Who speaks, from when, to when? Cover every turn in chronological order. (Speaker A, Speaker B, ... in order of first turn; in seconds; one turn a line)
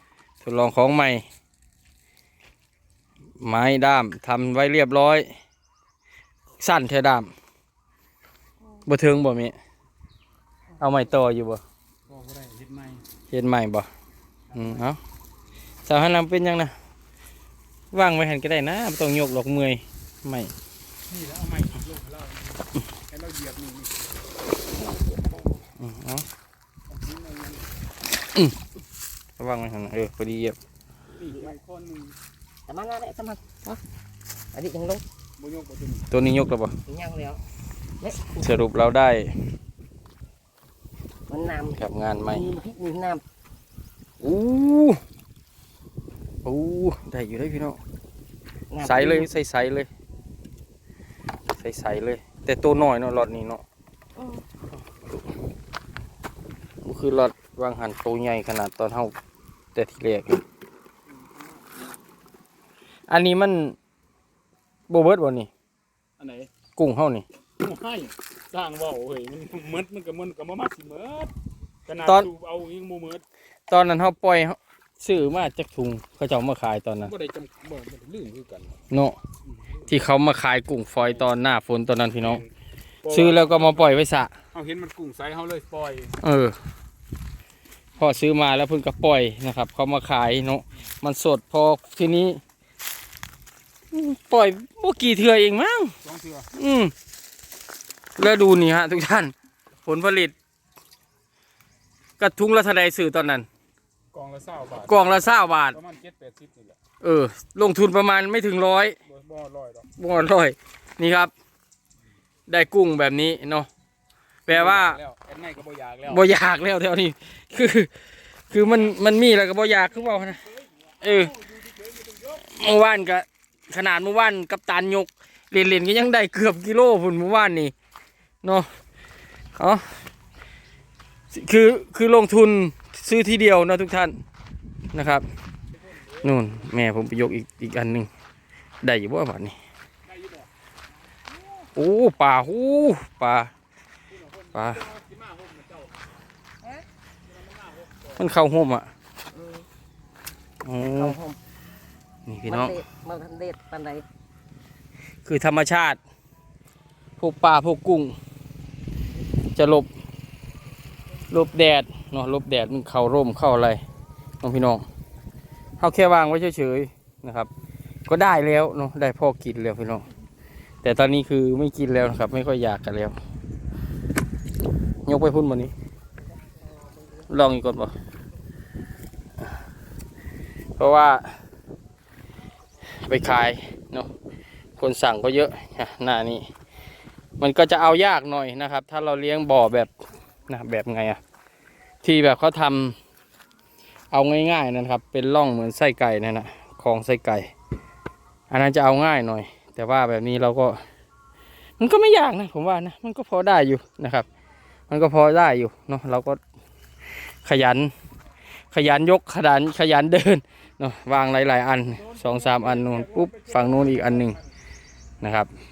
Speaker A: 0.4-1.2
Speaker A: 3.4-5.3
Speaker A: 6.6-7.3
Speaker A: 8.8-9.5
Speaker A: 10.8-11.6
Speaker B: 12.1-13.0
Speaker A: 13.3-13.9
Speaker B: 14.5-14.8
Speaker A: 14.5-15.0
Speaker A: 15.8-16.7
Speaker A: 17.9-20.5
Speaker B: 21.1-24.1
Speaker C: 24.8-25.4
Speaker A: 25.8-26.2
Speaker B: 26.9-27.6
Speaker A: 28.2-28.6
Speaker A: 29.4-30.6
Speaker B: 31.2-32.1
Speaker C: 31.2-31.5
Speaker C: 32.7-33.8
Speaker C: 34.5-35.0
Speaker B: 35.4-36.1
Speaker A: 36.1-36.7
Speaker C: 36.9-37.4
Speaker C: 38.0-38.5
Speaker A: 38.2-39.3
Speaker C: 41.3-43.2
Speaker A: 41.7-42.5
Speaker A: 44.2-45.0
Speaker A: 46.4-47.8
Speaker C: 48.7-49.3
Speaker A: 48.8-49.9
Speaker A: 51.5-53.6
Speaker A: 56.8-59.1
Speaker A: 59.7-60.4
Speaker B: 61.2-61.8
Speaker A: 63.1-63.8
Speaker A: 64.9-65.5
Speaker B: 66.2-66.5
Speaker A: 66.8-67.2
Speaker B: 67.6-71.3
Speaker B: 71.9-73.2
Speaker A: 72.0-72.3
Speaker A: 73.7-77.1
Speaker B: 77.0-78.7
Speaker A: 78.9-79.2
Speaker A: 79.9-82.4
Speaker B: 82.2-82.5
Speaker B: 83.0-83.9
Speaker A: 83.1-84.3
Speaker B: 84.5-86.2
Speaker A: 86.2-86.5
Speaker A: 88.0-92.4
Speaker A: 93.9-95.9
Speaker B: 96.0-96.5
Speaker A: 96.5-96.9
Speaker A: 98.2-99.3
Speaker A: 99.8-100.3
Speaker A: 102.2-103.5
Speaker B: 104.1-105.1
Speaker A: 104.9-105.8
Speaker B: 105.7-106.8
Speaker A: 107.0-109.0
Speaker B: 109.0-109.9
Speaker A: 110.0-111.3
Speaker A: 112.5-113.7
Speaker A: 114.5-115.0
Speaker B: 114.5-116.3
Speaker A: 116.1-117.9
Speaker A: 118.5-120.4
Speaker A: 121.0-121.4
Speaker B: 121.1-122.4
Speaker A: 122.4-127.7
Speaker A: 128.4-128.7
Speaker A: 129.6-129.8
Speaker A: 131.3-134.1
Speaker A: 134.9-135.2
Speaker A: 136.2-138.1
Speaker A: 138.8-139.6
Speaker B: 140.1-140.4
Speaker A: 141.7-143.5
Speaker B: 144.1-146.1
Speaker A: 144.5-144.9
Speaker B: 147.3-148.2
Speaker A: 148.2-148.9
Speaker C: 149.3-149.7
Speaker A: 150.6-151.2
Speaker C: 150.8-151.4
Speaker A: 152.3-152.8
Speaker C: 152.4-154.0
Speaker A: 155.2-156.0
Speaker A: 157.2-158.1
Speaker A: 159.5-159.9
Speaker A: 161.3-163.8
Speaker A: 164.4-164.8
Speaker A: 165.8-167.5
Speaker A: 168.1-170.0
Speaker A: 170.8-173.2
Speaker A: 175.0-175.7
Speaker A: 177.3-177.9
Speaker A: 180.8-181.2
Speaker A: 183.0-184.1
Speaker A: 184.8-186.4
Speaker A: 187.4-189.9
Speaker A: 190.5-191.2
Speaker A: 192.0-192.9
Speaker A: 194.1-197.5
Speaker A: 198.5-200.8
Speaker A: 201.8-204.3
Speaker A: 204.9-206.4
Speaker A: 207.4-207.9
Speaker A: 208.7-214.4
Speaker B: 212.0-214.4
Speaker A: 215.2-215.5